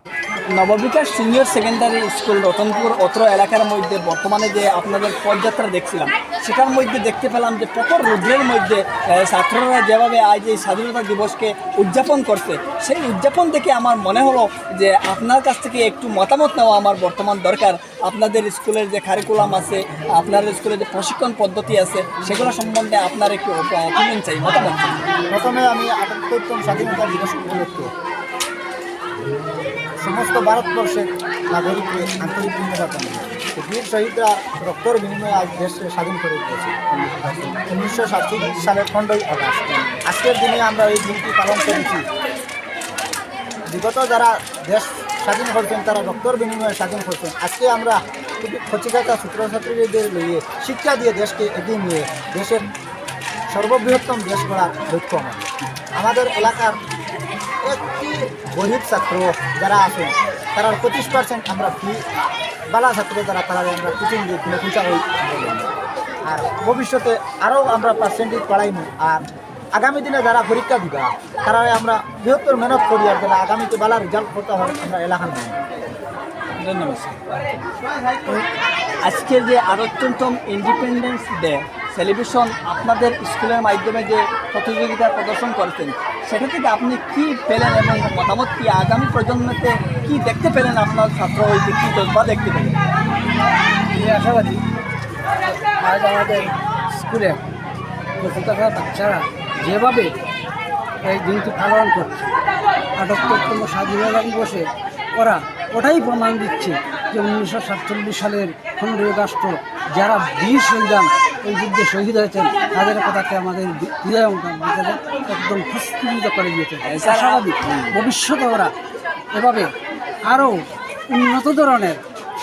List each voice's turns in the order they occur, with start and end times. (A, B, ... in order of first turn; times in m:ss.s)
0:00.6-0:25.0 A
0:25.3-0:27.9 B
0:30.0-0:42.0 B
0:43.7-0:52.7 B
0:53.5-0:56.8 B
0:57.6-1:02.0 B
1:02.7-1:05.7 B
1:06.2-1:15.6 B
1:16.6-1:17.2 A
1:19.1-1:32.7 A
1:33.9-1:34.6 C
1:35.4-1:37.4 C
1:38.2-1:40.2 C
1:41.0-1:42.3 C
1:43.0-1:58.7 C
1:56.9-1:57.2 A
1:59.3-1:59.7 C
2:00.2-2:02.0 C